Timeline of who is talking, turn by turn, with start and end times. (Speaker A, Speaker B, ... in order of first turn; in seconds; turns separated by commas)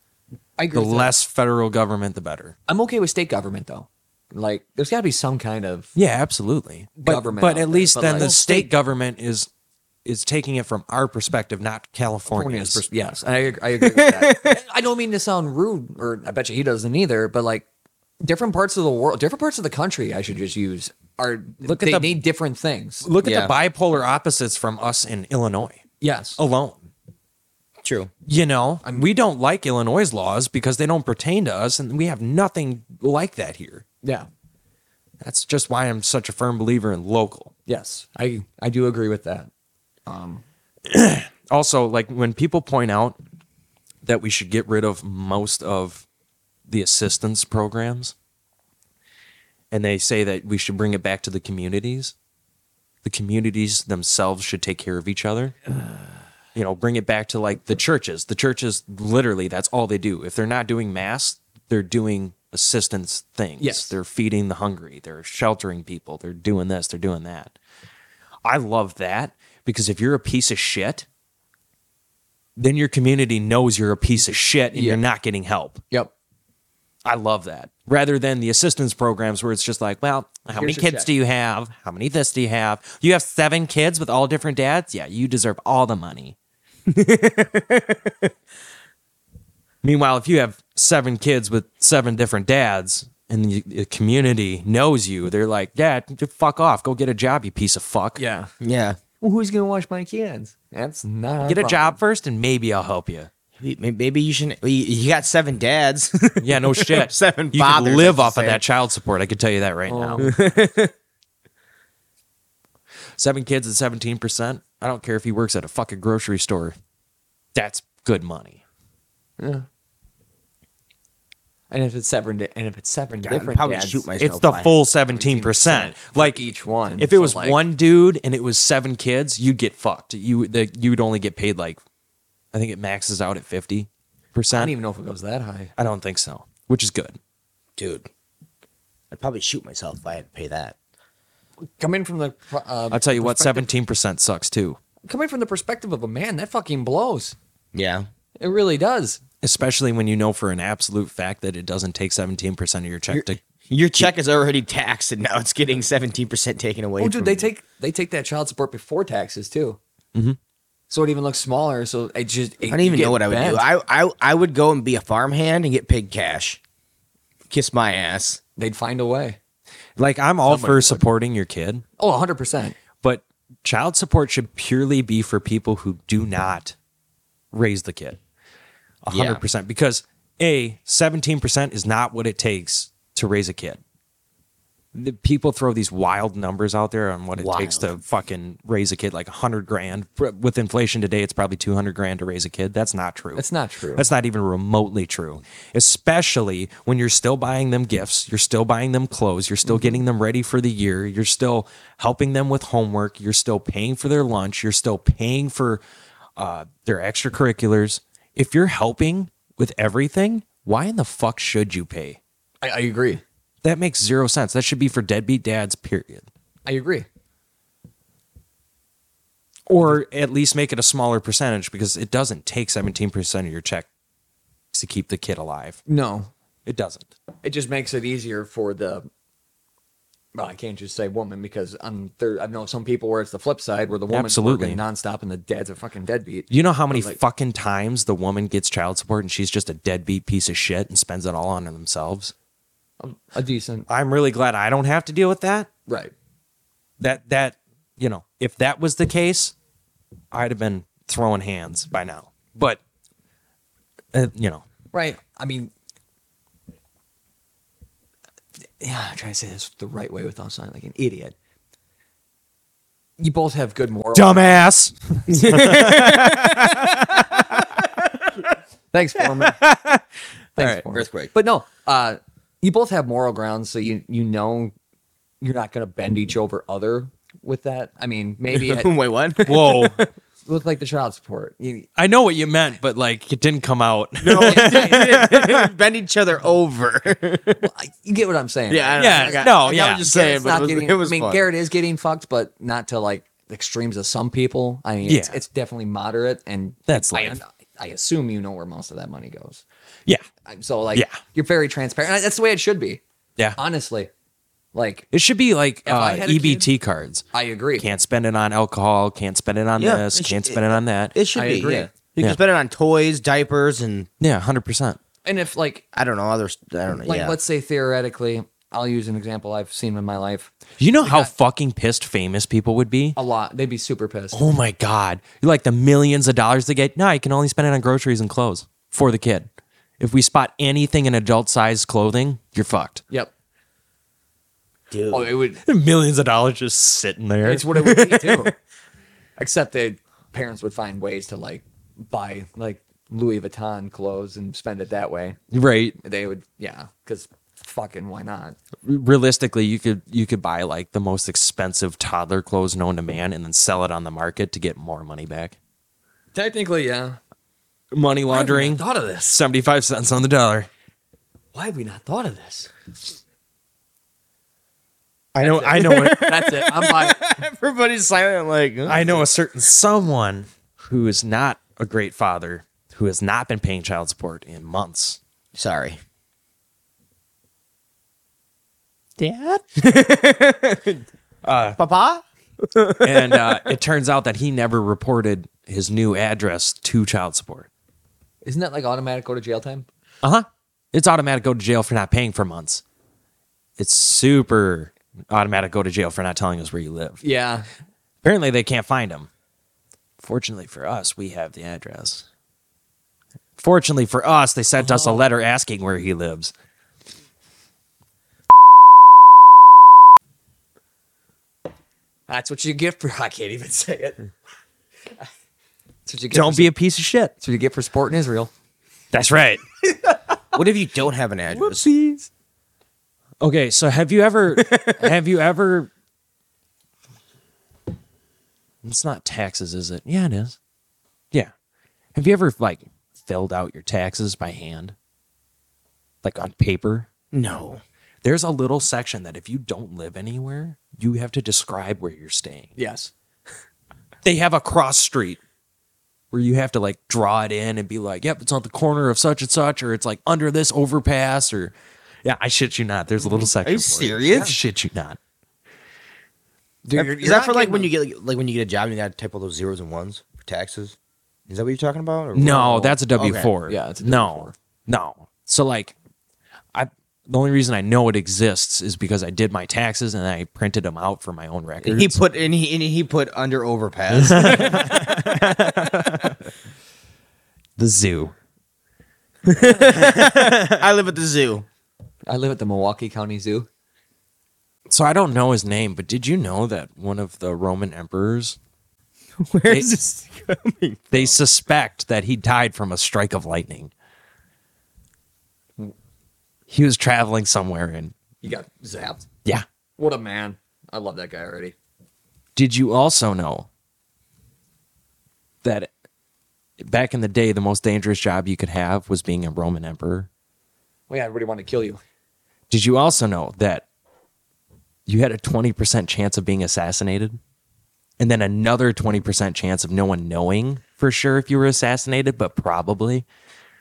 Speaker A: 0.6-1.1, Speaker B: 0.7-2.5, Speaker A: 2.7-5.9, Speaker B: 5.9-9.5, Speaker A: 7.0-8.7, Speaker B: 10.0-12.8, Speaker A: 12.3-17.7, Speaker C: 13.8-14.6, Speaker A: 18.2-23.1, Speaker B: 21.6-22.2, Speaker B: 23.0-25.8, Speaker C: 23.2-23.5, Speaker A: 26.0-26.4, Speaker B: 26.4-26.9, Speaker C: 27.8-28.1, Speaker B: 28.2-33.8, Speaker A: 28.8-29.1, Speaker A: 34.0-34.3, Speaker B: 35.2-37.5, Speaker A: 37.7-39.5, Speaker A: 40.1-40.4, Speaker B: 40.9-43.2, Speaker B: 44.0-46.0, Speaker B: 46.7-48.1, Speaker B: 49.7-52.1, Speaker B: 53.0-55.7, Speaker B: 56.5-67.5, Speaker A: 63.6-63.9, Speaker B: 68.4-71.0, Speaker B: 72.6-75.8, Speaker A: 74.7-75.0, Speaker B: 77.0-86.3, Speaker A: 80.5-81.1, Speaker C: 86.9-88.3, Speaker B: 89.8-98.2, Speaker A: 98.2-98.5, Speaker C: 98.6-99.0, Speaker A: 99.2-102.0, Speaker B: 101.5-103.3, Speaker C: 103.6-108.6, Speaker B: 106.4-110.3, Speaker A: 109.9-110.3, Speaker C: 110.2-110.9, Speaker B: 113.2-116.8, Speaker B: 117.5-118.6, Speaker A: 119.4-119.7, Speaker A: 121.7-124.0, Speaker C: 123.2-124.7, Speaker B: 124.2-126.4, Speaker A: 125.1-127.6, Speaker B: 127.0-131.8, Speaker B: 132.5-134.7, Speaker A: 134.5-135.7, Speaker B: 135.8-137.2, Speaker C: 137.8-138.1, Speaker C: 139.1-140.8, Speaker A: 141.7-143.7, Speaker B: 142.9-144.8, Speaker A: 145.1-147.3, Speaker C: 147.7-148.1, Speaker A: 148.4-149.2, Speaker B: 149.4-153.4, Speaker C: 153.1-157.5, Speaker A: 157.0-159.8, Speaker A: 160.9-163.7, Speaker C: 162.7-166.6, Speaker C: 167.5-168.4, Speaker A: 168.6-169.4, Speaker B: 170.0-171.8, Speaker C: 170.5-171.0, Speaker A: 170.7-170.9, Speaker A: 172.0-172.8, Speaker B: 173.0-176.7, Speaker B: 177.5-178.2, Speaker B: 179.0-183.8, Speaker C: 179.1-179.4, Speaker B: 184.9-193.4, Speaker C: 187.3-187.9, Speaker A: 193.3-194.1, Speaker B: 193.9-205.8, Speaker A: 199.6-200.0, Speaker B: 206.4-212.2, Speaker A: 212.6-213.2, Speaker B: 213.6-216.3, Speaker A: 216.7-217.1, Speaker B: 219.7-223.9, Speaker B: 224.7-225.8, Speaker A: 225.9-226.3, Speaker B: 226.7-227.1, Speaker A: 227.4-229.1, Speaker A: 230.3-237.2, Speaker B: 234.1-234.8, Speaker B: 236.5-242.3, Speaker A: 243.0-243.9, Speaker B: 243.9-245.7, Speaker A: 245.9-246.1, Speaker B: 247.0-249.5, Speaker B: 250.3-252.8, Speaker B: 254.1-254.6, Speaker A: 254.9-255.7, Speaker A: 258.8-261.3, Speaker A: 263.2-264.4, Speaker B: 264.1-267.4, Speaker C: 265.3-267.2, Speaker A: 268.9-269.6, Speaker B: 269.4-270.0, Speaker A: 270.6-274.7, Speaker B: 270.6-270.8, Speaker C: 270.9-271.3, Speaker A: 275.4-278.9, Speaker C: 278.5-279.9, Speaker B: 279.4-280.0, Speaker A: 280.4-281.9, Speaker B: 282.0-285.7, Speaker C: 284.2-287.6, Speaker A: 284.4-285.2, Speaker A: 287.6-299.6, Speaker C: 288.7-291.4, Speaker B: 288.9-290.3, Speaker B: 295.1-295.4, Speaker B: 296.9-297.4, Speaker A: 300.4-303.0, Speaker A: 303.6-304.1, Speaker A: 304.7-305.1, Speaker B: 305.1-307.2, Speaker A: 305.8-306.7, Speaker A: 307.3-307.9, Speaker B: 307.8-311.1, Speaker C: 309.8-314.1, Speaker A: 311.3-311.9, Speaker B: 314.2-315.0, Speaker A: 315.2-315.8, Speaker C: 315.9-317.4, Speaker A: 317.0-320.5, Speaker B: 320.8-323.1, Speaker A: 321.0-321.3, Speaker A: 323.1-324.4, Speaker B: 324.3-329.5, Speaker B: 330.0-333.0, Speaker C: 334.9-335.3, Speaker A: 335.1-335.6, Speaker B: 335.6-338.5, Speaker A: 337.4-338.5, Speaker A: 339.4-345.4, Speaker B: 345.5-345.9, Speaker A: 346.0-348.6, Speaker B: 348.8-355.6, Speaker A: 356.3-357.2, Speaker B: 357.9-360.7, Speaker A: 358.3-359.3, Speaker A: 361.5-362.7, Speaker B: 365.4-366.4, Speaker A: 365.4-367.4, Speaker C: 365.7-369.2, Speaker B: 368.9-375.2, Speaker C: 375.5-376.0, Speaker B: 379.2-379.6, Speaker C: 379.8-381.0, Speaker B: 381.4-381.8, Speaker C: 381.8-383.5, Speaker B: 383.0-387.7, Speaker A: 388.4-389.9, Speaker B: 390.2-392.8, Speaker B: 393.8-397.2, Speaker A: 397.2-397.7, Speaker B: 398.2-399.3, Speaker B: 400.2-402.2, Speaker B: 403.6-406.5, Speaker A: 404.8-405.2, Speaker A: 412.3-414.2, Speaker A: 416.1-416.7, Speaker B: 416.3-417.3, Speaker A: 417.4-418.5, Speaker B: 419.1-419.6, Speaker C: 420.5-421.9, Speaker A: 421.5-422.3, Speaker B: 423.4-425.9, Speaker C: 424.5-425.1, Speaker B: 428.8-430.6, Speaker B: 432.1-434.9, Speaker B: 436.2-437.1, Speaker C: 437.3-437.8, Speaker B: 438.2-442.7, Speaker A: 442.8-443.1, Speaker B: 444.2-445.4, Speaker B: 446.3-455.2, Speaker C: 453.4-454.5, Speaker A: 456.8-457.9, Speaker C: 456.9-460.9, Speaker C: 461.5-463.5, Speaker B: 462.3-465.9, Speaker A: 463.7-464.5, Speaker B: 466.7-472.2, Speaker C: 471.8-475.6, Speaker B: 474.1-476.4, Speaker B: 477.8-478.3, Speaker C: 479.5-481.6, Speaker B: 479.8-480.8, Speaker A: 482.3-483.7, Speaker B: 484.9-488.6, Speaker C: 489.4-491.4, Speaker B: 491.1-493.9, Speaker B: 496.7-498.1, Speaker A: 498.4-499.3, Speaker A: 500.0-501.7, Speaker B: 502.6-503.7, Speaker B: 505.6-505.9, Speaker B: 506.8-510.3, Speaker A: 511.1-512.0, Speaker B: 512.7-513.8, Speaker B: 515.1-517.4, Speaker B: 518.2-523.3